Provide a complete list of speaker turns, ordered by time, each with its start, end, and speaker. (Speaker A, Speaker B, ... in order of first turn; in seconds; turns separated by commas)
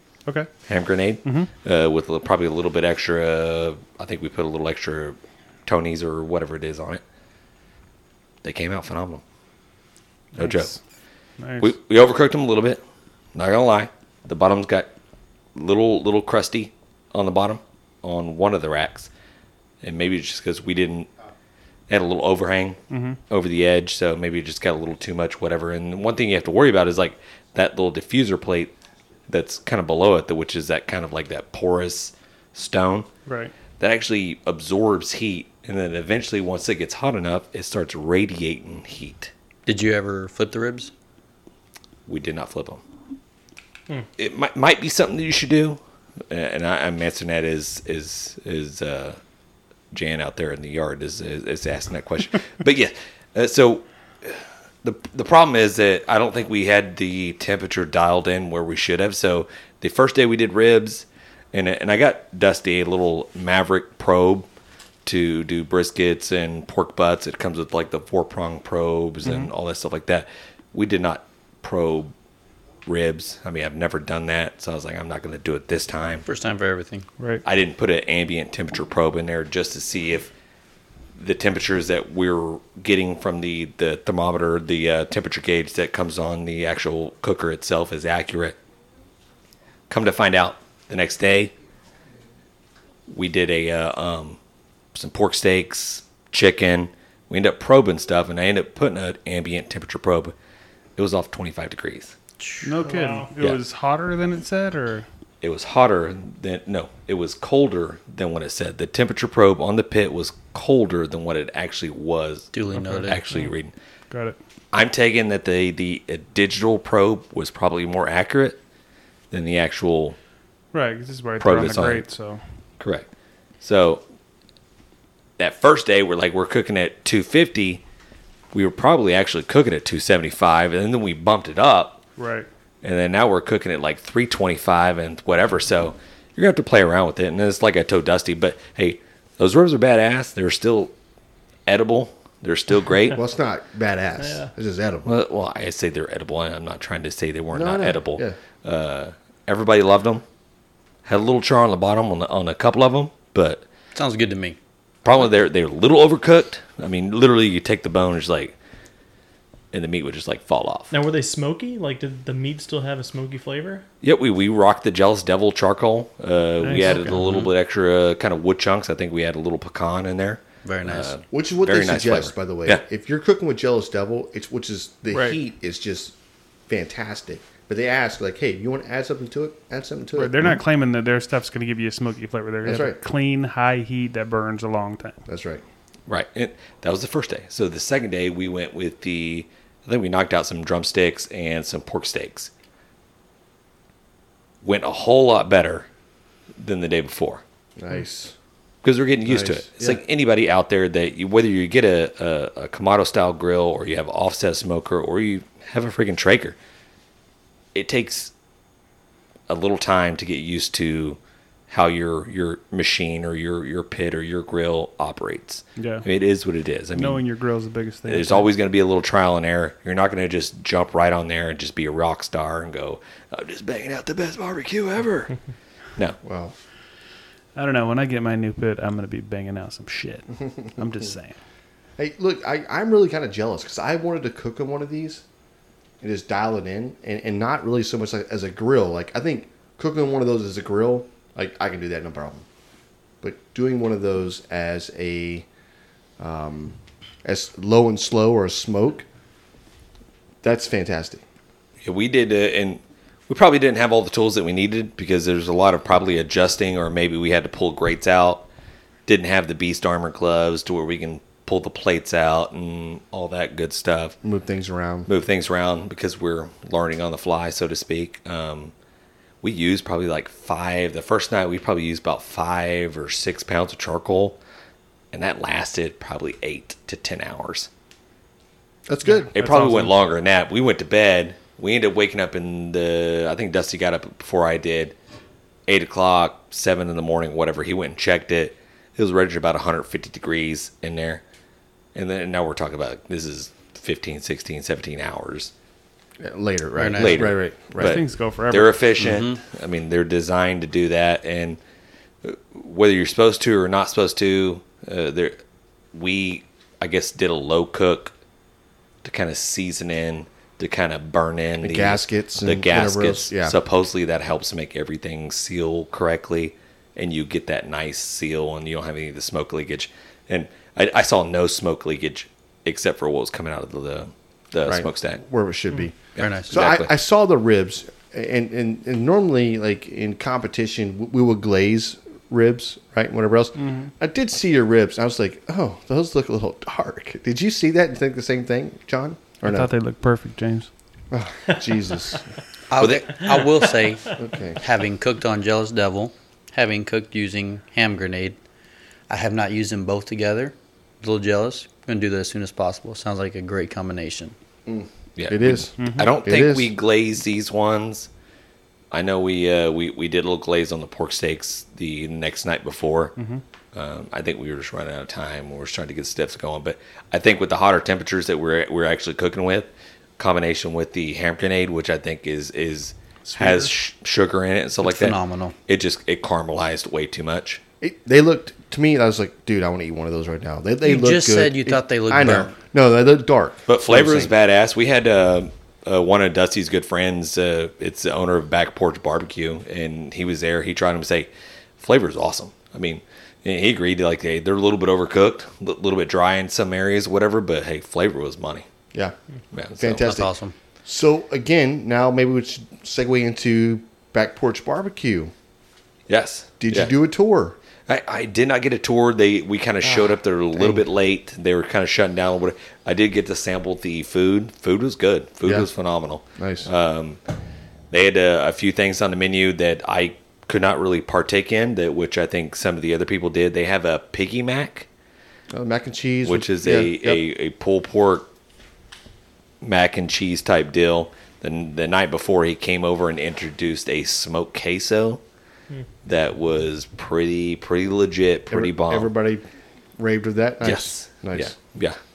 Speaker A: 0.7-7.0, Speaker B: 1.2-1.5, Speaker A: 8.4-9.2, Speaker A: 10.3-10.8, Speaker B: 10.3-10.8, Speaker B: 11.4-11.7, Speaker A: 11.6-12.8, Speaker A: 13.3-14.9, Speaker A: 15.5-19.1, Speaker A: 19.8-21.1, Speaker A: 21.9-28.7, Speaker B: 22.9-23.2, Speaker A: 29.3-33.1, Speaker B: 33.2-33.5, Speaker A: 33.8-39.3, Speaker C: 39.6-40.9, Speaker A: 42.1-42.8, Speaker A: 44.2-45.8, Speaker A: 46.3-49.2, Speaker A: 49.9-64.5, Speaker A: 65.0-72.1, Speaker B: 69.2-69.5, Speaker A: 72.8-76.2, Speaker C: 76.2-77.1, Speaker A: 77.4-80.3, Speaker A: 81.2-88.5, Speaker A: 89.9-91.5, Speaker A: 93.1-94.4, Speaker A: 94.9-100.3, Speaker A: 101.0-102.2, Speaker C: 102.4-102.7, Speaker B: 102.6-105.0, Speaker D: 102.8-103.3, Speaker A: 105.4-113.7, Speaker C: 112.5-113.2, Speaker B: 112.8-113.5, Speaker B: 114.1-114.4, Speaker A: 114.7-118.6, Speaker A: 119.3-120.2, Speaker B: 120.7-122.4, Speaker A: 121.4-122.0, Speaker A: 122.8-123.0, Speaker A: 123.6-124.0, Speaker A: 125.4-127.8, Speaker A: 128.5-132.0, Speaker B: 132.2-132.5, Speaker A: 132.8-140.9, Speaker A: 141.7-143.2, Speaker E: 143.1-145.1, Speaker A: 145.0-150.2, Speaker E: 147.5-148.4, Speaker A: 151.0-153.6, Speaker C: 153.9-154.6, Speaker A: 155.0-158.6, Speaker A: 159.7-160.9, Speaker D: 160.9-163.8, Speaker A: 164.0-172.8, Speaker B: 166.6-167.2, Speaker C: 167.0-167.5, Speaker C: 170.6-171.2, Speaker E: 171.3-176.1, Speaker B: 175.1-175.4, Speaker E: 176.7-180.5, Speaker B: 180.1-185.2, Speaker E: 182.6-183.0, Speaker E: 185.3-185.6, Speaker A: 186.1-192.5, Speaker A: 194.6-195.9, Speaker A: 196.6-197.4, Speaker E: 197.8-198.3, Speaker A: 198.8-206.6, Speaker E: 199.2-200.0, Speaker A: 207.7-208.3, Speaker A: 209.5-211.2, Speaker A: 211.7-217.3, Speaker B: 215.8-216.1, Speaker B: 216.9-218.5, Speaker A: 218.1-225.3, Speaker E: 226.2-226.5, Speaker B: 227.5-231.4, Speaker E: 232.0-235.2, Speaker E: 236.0-242.4, Speaker E: 243.2-245.5, Speaker E: 246.2-249.1, Speaker E: 250.4-251.2, Speaker A: 251.8-258.5, Speaker A: 259.1-264.2, Speaker E: 264.2-265.1, Speaker A: 265.1-268.7, Speaker A: 269.4-274.4, Speaker A: 275.1-277.7, Speaker E: 278.9-279.6, Speaker B: 279.1-279.9, Speaker A: 279.3-284.9, Speaker A: 285.7-291.2, Speaker A: 291.9-295.5, Speaker E: 296.2-298.0, Speaker C: 296.8-297.3, Speaker A: 296.9-301.6, Speaker B: 297.8-298.9, Speaker C: 299.0-299.4, Speaker A: 302.2-305.4, Speaker A: 305.9-308.1, Speaker A: 309.0-325.2, Speaker E: 311.6-313.6, Speaker E: 324.7-325.9, Speaker A: 326.1-326.9, Speaker C: 326.2-326.6, Speaker E: 326.5-339.7, Speaker B: 333.6-333.9, Speaker B: 339.4-340.7, Speaker E: 341.1-342.2, Speaker C: 342.7-348.4, Speaker A: 342.8-343.2, Speaker E: 344.1-344.6, Speaker C: 349.1-354.3, Speaker E: 354.6-356.7, Speaker A: 355.1-358.1, Speaker B: 355.8-356.1, Speaker A: 358.9-363.1, Speaker B: 363.2-363.4, Speaker A: 363.7-375.1, Speaker C: 374.8-375.5, Speaker A: 375.7-377.6, Speaker E: 377.8-384.3, Speaker C: 380.8-382.5, Speaker A: 383.7-398.6, Speaker A: 399.5-400.1, Speaker E: 399.8-400.3, Speaker C: 400.0-400.5, Speaker E: 400.8-405.3, Speaker A: 406.1-406.9, Speaker E: 406.6-407.6, Speaker A: 407.9-417.2, Speaker E: 409.8-410.8, Speaker E: 415.4-415.7, Speaker E: 416.4-416.7, Speaker A: 417.9-424.9, Speaker E: 425.5-427.2, Speaker A: 426.2-428.3, Speaker A: 429.6-435.2, Speaker A: 436.0-439.1, Speaker E: 438.5-439.4, Speaker E: 440.0-441.5, Speaker A: 440.6-442.0